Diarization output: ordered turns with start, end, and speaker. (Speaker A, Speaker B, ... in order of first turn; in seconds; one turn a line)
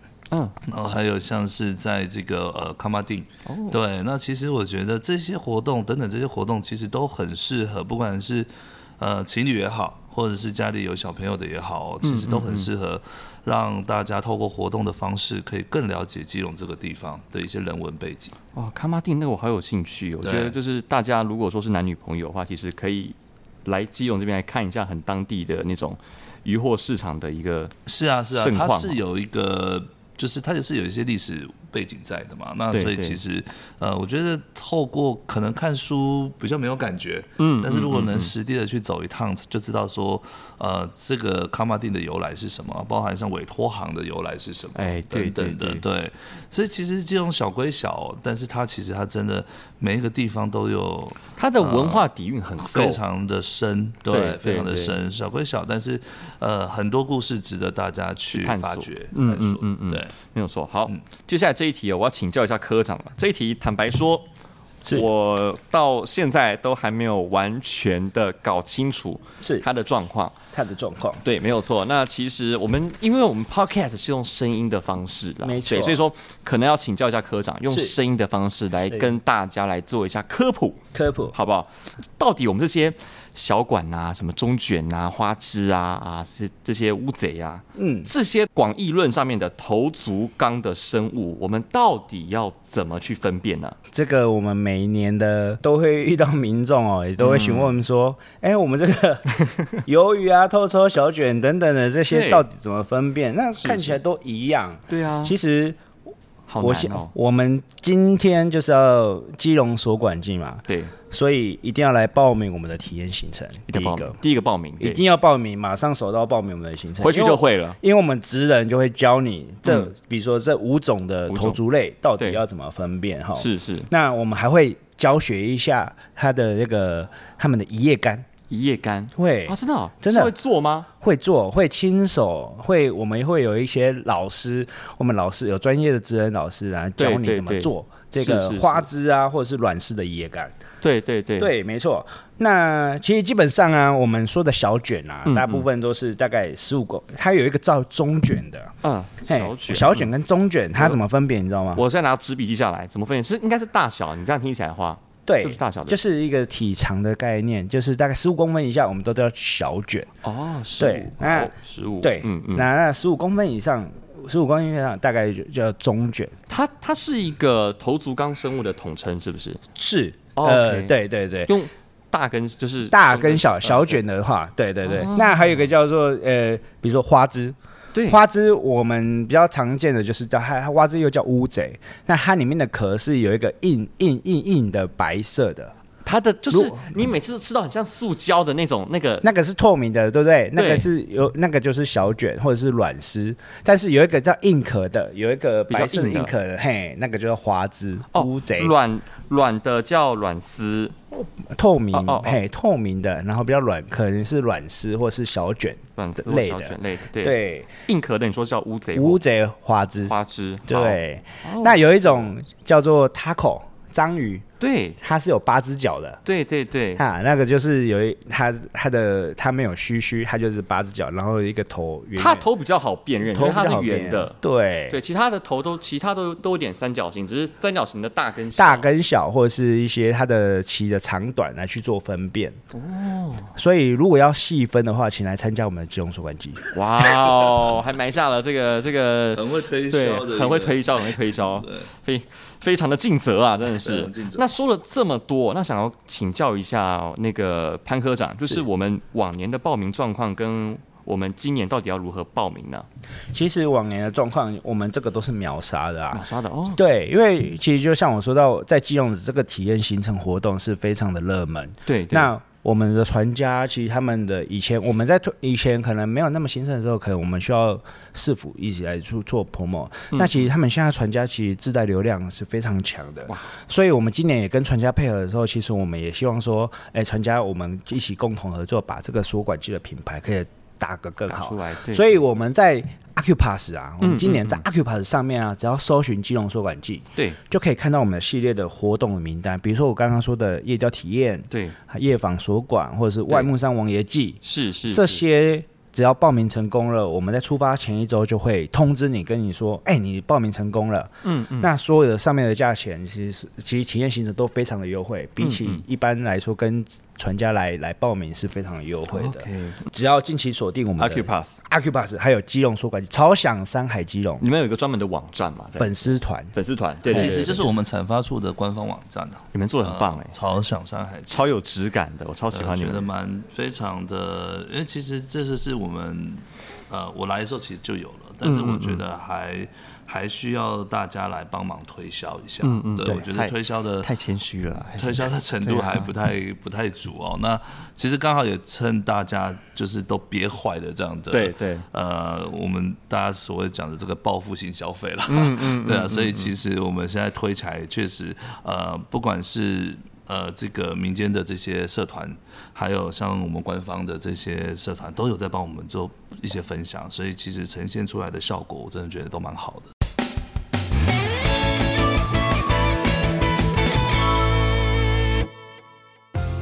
Speaker A: 0.3-0.6
Speaker B: 0.7-18.4
Speaker A: 3.5-3.8
Speaker A: 12.0-12.7
Speaker A: 18.6-27.7
Speaker B: 20.2-20.6
Speaker B: 27.9-60.1
Speaker A: 28.3-29.0
Speaker A: 32.7-33.2
Speaker A: 37.4-38.3
Speaker A: 44.8-45.9
Speaker A: 51.4-53.0
Speaker A: 54.1-55.0
Speaker A: 58.3-64.3
Speaker A: 64.9-70.4
Speaker C: 70.5-71.2
Speaker A: 71.2-93.8
Speaker C: 75.4-76.0
Speaker C: 77.7-78.0
Speaker C: 78.9-79.1
Speaker C: 80.9-81.3
Speaker C: 87.8-88.1
Speaker C: 93.9-105.8
Speaker A: 97.2-97.8
Speaker A: 99.5-99.8
Speaker A: 102.1-102.5
Speaker A: 103.6-104.0
Speaker A: 104.9-105.3
Speaker A: 106.5-107.1
Speaker C: 106.6-114.2
Speaker A: 110.7-110.9
Speaker A: 113.7-115.0
Speaker C: 114.8-128.3
Speaker A: 117.0-117.8
Speaker A: 119.7-119.9
Speaker A: 121.3-121.6
Speaker A: 123.4-123.9
Speaker A: 128.5-130.9
Speaker C: 129.2-130.3
Speaker C: 131.0-140.6
Speaker A: 137.0-138.9
Speaker A: 140.8-141.5
Speaker C: 141.4-148.8
Speaker A: 145.3-145.7
Speaker A: 148.8-150.1
Speaker C: 149.3-151.8
Speaker A: 151.8-156.0
Speaker C: 155.3-160.1
Speaker A: 160.2-162.7
Speaker C: 160.8-166.3
Speaker A: 166.5-169.6
Speaker C: 169.8-171.5
Speaker A: 170.4-174.0
Speaker C: 172.9-185.8
Speaker A: 174.8-175.6
Speaker A: 177.9-178.2
Speaker A: 186.1-189.3
Speaker C: 186.5-187.0
Speaker C: 189.2-198.7
Speaker A: 190.6-190.9
Speaker A: 195.7-196.3
Speaker A: 198.1-200.9
Speaker C: 201.1-207.7
Speaker A: 201.9-202.4
Speaker A: 206.0-209.2
Speaker C: 208.9-210.2
Speaker A: 210.1-212.2
Speaker C: 210.7-214.5
Speaker A: 214.6-215.0
Speaker C: 215.0-216.2
Speaker A: 216.2-217.0
Speaker C: 217.0-222.5
Speaker A: 222.2-224.4
Speaker C: 223.3-225.0
Speaker A: 224.9-228.9
Speaker C: 228.6-232.6
Speaker A: 232.7-233.5
Speaker C: 233.6-236.7
Speaker A: 236.7-252.9
Speaker B: 239.3-241.9
Speaker B: 243.8-244.5
Speaker C: 253.3-314.4
Speaker A: 256.1-256.8
Speaker A: 261.9-262.3
Speaker A: 270.1-270.4
Speaker A: 273.3-273.5
Speaker A: 281.3-282.1
Speaker A: 284.0-284.6
Speaker A: 291.5-291.8
Speaker A: 294.4-295.2
Speaker A: 301.2-301.7
Speaker A: 305.4-305.8
Speaker A: 309.1-309.9
Speaker A: 311.0-311.6
Speaker A: 314.4-317.7
Speaker C: 315.8-316.5
Speaker C: 317.1-317.7
Speaker B: 317.1-321.5
Speaker A: 319.5-320.4
Speaker A: 321.3-323.1
Speaker B: 322.5-334.1
Speaker A: 328.4-329.0
Speaker A: 332.6-336.1
Speaker B: 335.0-359.9
Speaker A: 341.3-341.9
Speaker A: 345.3-346.5